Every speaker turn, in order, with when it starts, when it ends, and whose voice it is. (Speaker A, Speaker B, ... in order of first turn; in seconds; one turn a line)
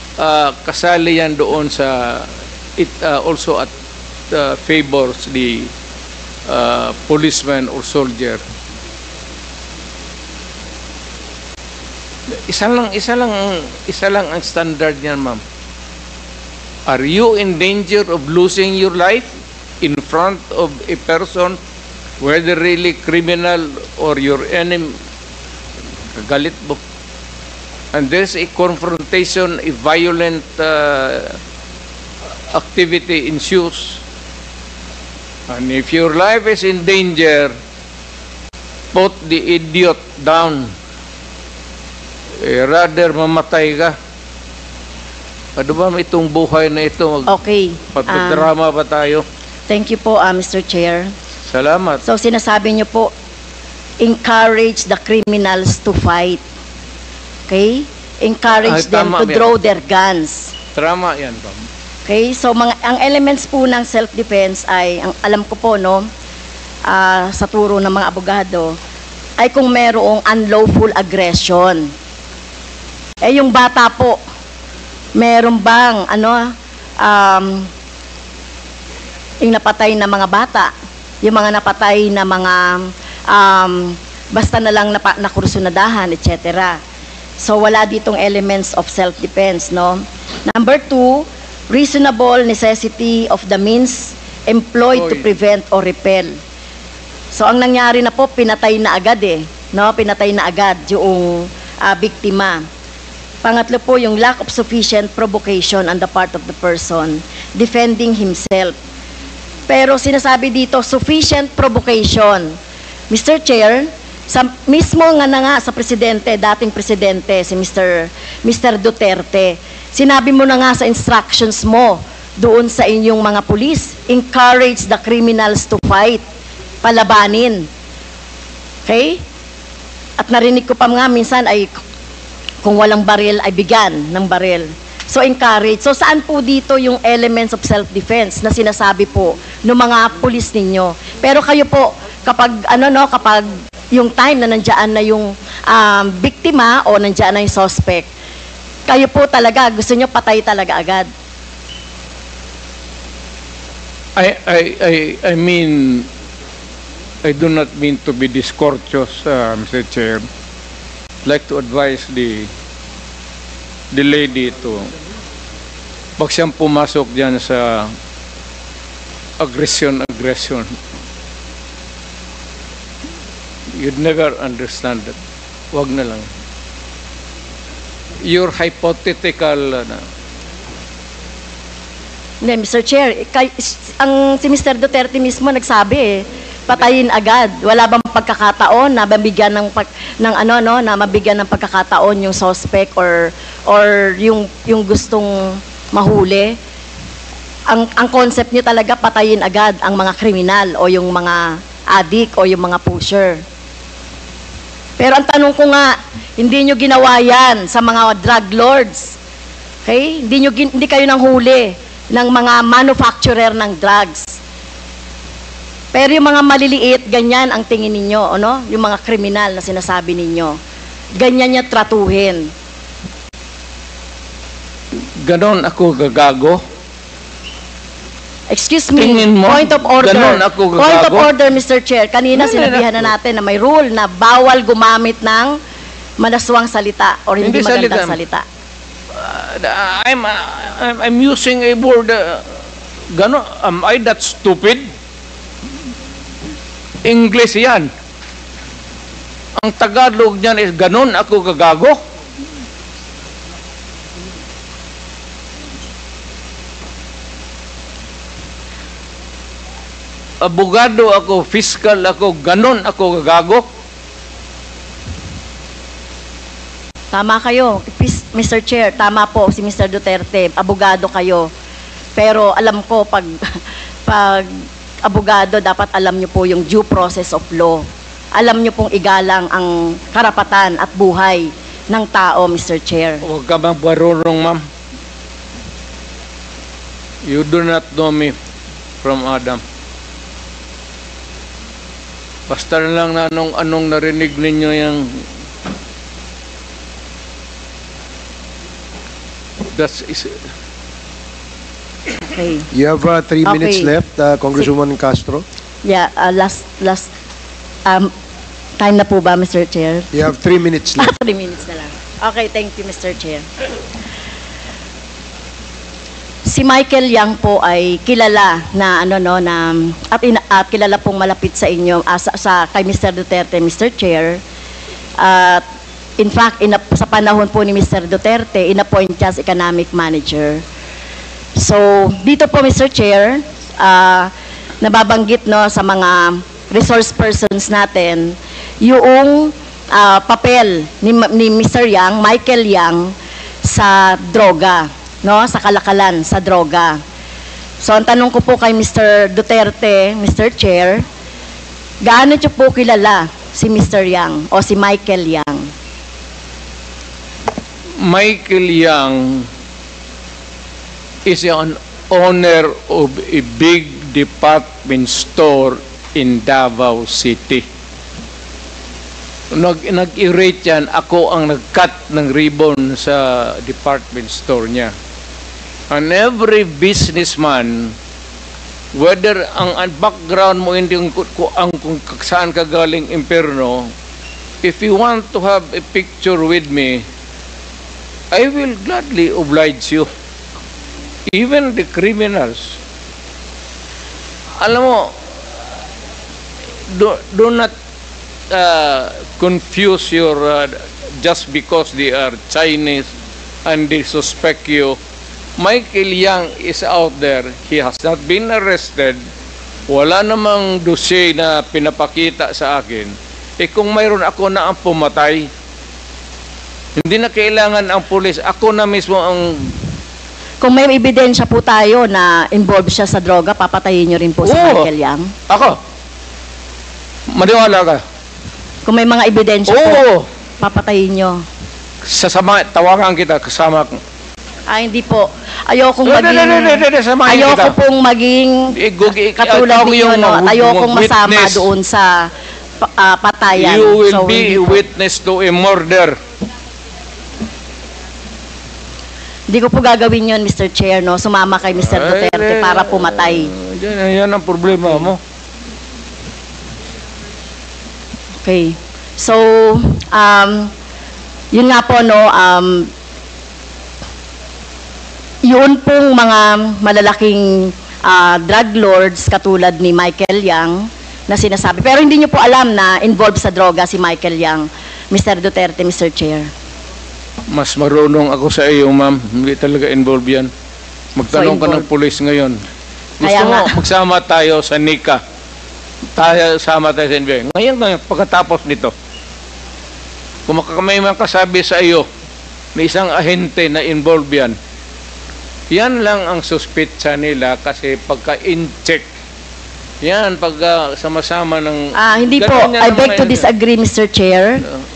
Speaker A: 0.2-3.7
Speaker A: 4.3-5.7
Speaker A: 6.5-8.4
Speaker A: 12.3-15.4
Speaker A: 16.9-21.6
Speaker A: 22.2-24.9
Speaker A: 26.2-26.8
Speaker A: 27.9-31.4
Speaker A: 32.5-34.0
Speaker A: 35.5-37.5
Speaker A: 38.9-40.7
Speaker A: 42.4-44.0
Speaker A: 45.6-47.3
Speaker B: 47.3-48.5
Speaker A: 47.9-49.2
Speaker B: 49.7-51.1
Speaker A: 51.5-52.0
Speaker B: 52.0-53.1
Speaker B: 54.0-56.4
Speaker B: 57.5-60.5
Speaker A: 58.6-59.5
Speaker A: 60.8-61.6
Speaker B: 62.0-66.1
Speaker B: 66.9-68.8
Speaker B: 69.4-71.9
Speaker B: 73.2-74.2
Speaker B: 75.2-77.7
Speaker B: 79.4-80.7
Speaker B: 81.2-86.8
Speaker B: 87.4-96.4
Speaker A: 94.9-95.3
Speaker B: 97.3-102.6
Speaker B: 103.4-108.8
Speaker B: 109.7-112.6
Speaker B: 113.1-126.2
Speaker B: 126.8-127.7
Speaker B: 128.9-129.2
Speaker B: 130.2-131.8
Speaker B: 132.6-148.1
Speaker B: 148.9-151.1
Speaker A: 154.2-156.1
Speaker A: 157.2-160.3
Speaker A: 161.2-162.5
Speaker A: 163.9-164.9
Speaker A: 166.2-167.9
Speaker A: 169.4-170.7
Speaker A: 173.8-175.2
Speaker A: 175.7-176.3
Speaker A: 178.2-180.0
Speaker B: 182.4-196.6
Speaker B: 197.7-203.4
Speaker B: 205.0-209.2
Speaker B: 209.8-214.4
Speaker B: 215.9-220.6
Speaker B: 221.2-222.5
Speaker A: 225.2-226.6
Speaker B: 228.5-235.6
Speaker A: 229.0-231.3
Speaker A: 232.3-233.1
Speaker B: 236.2-238.4
Speaker A: 237.4-238.2
Speaker A: 239.1-242.4
Speaker A: 243.1-244.9
Speaker A: 247.1-247.9
Speaker A: 249.6-252.0
Speaker A: 260.4-263.7
Speaker B: 267.1-271.5
Speaker B: 272.2-283.2
Speaker A: 283.2-284.7
Speaker A: 287.3-288.4
Speaker A: 289.0-289.6
Speaker A: 292.5-295.2
Speaker A: 299.7-300.4
Speaker B: 302.3-302.7
Speaker C: 302.7-305.4
Speaker B: 303.4-303.9
Speaker B: 305.8-307.1
Speaker B: 308.8-310.1
Speaker C: 310.1-311.1
Speaker B: 311.0-313.5
Speaker B: 316.4-324.4
Speaker B: 325.2-325.6
Speaker B: 326.2-330.6
Speaker B: 331.6-343.1
Speaker B: 343.6-347.0
Speaker B: 347.8-351.1
Speaker B: 352.0-355.7
Speaker A: 358.0-359.5
Speaker A: 361.3-367.6
Speaker A: 369.5-374.9
Speaker A: 375.9-377.9
Speaker A: 378.9-383.9
Speaker A: 384.6-387.1
Speaker A: 388.3-390.1
Speaker A: 391.3-392.8
Speaker A: 394.6-395.1
Speaker A: 396.9-397.7
Speaker A: 398.5-403.1
Speaker A: 403.7-405.0
Speaker A: 405.6-409.2
Speaker A: 409.9-415.5
Speaker A: 417.0-419.7
Speaker B: 420.6-425.3
Speaker A: 424.4-424.9
Speaker A: 425.5-425.8
Speaker A: 427.3-428.0
Speaker B: 428.9-430.0
Speaker A: 429.7-430.3
Speaker B: 430.6-431.4
Speaker A: 432.1-434.0
Speaker B: 434.7-438.8
Speaker A: 436.1-437.8
Speaker A: 438.7-441.7
Speaker B: 439.4-442.3
Speaker B: 442.8-444.8
Speaker A: 443.6-446.2
Speaker B: 449.5-453.5
Speaker A: 451.8-455.2
Speaker B: 458.4-460.7
Speaker B: 461.5-462.9
Speaker B: 465.4-476.5
Speaker A: 477.5-480.5
Speaker A: 481.2-482.6
Speaker B: 481.3-481.9
Speaker A: 483.2-485.2
Speaker B: 483.2-483.8
Speaker A: 486.2-488.9
Speaker A: 490.5-492.1
Speaker A: 492.8-494.6
Speaker A: 495.7-499.1
Speaker A: 500.0-503.5
Speaker B: 501.9-504.6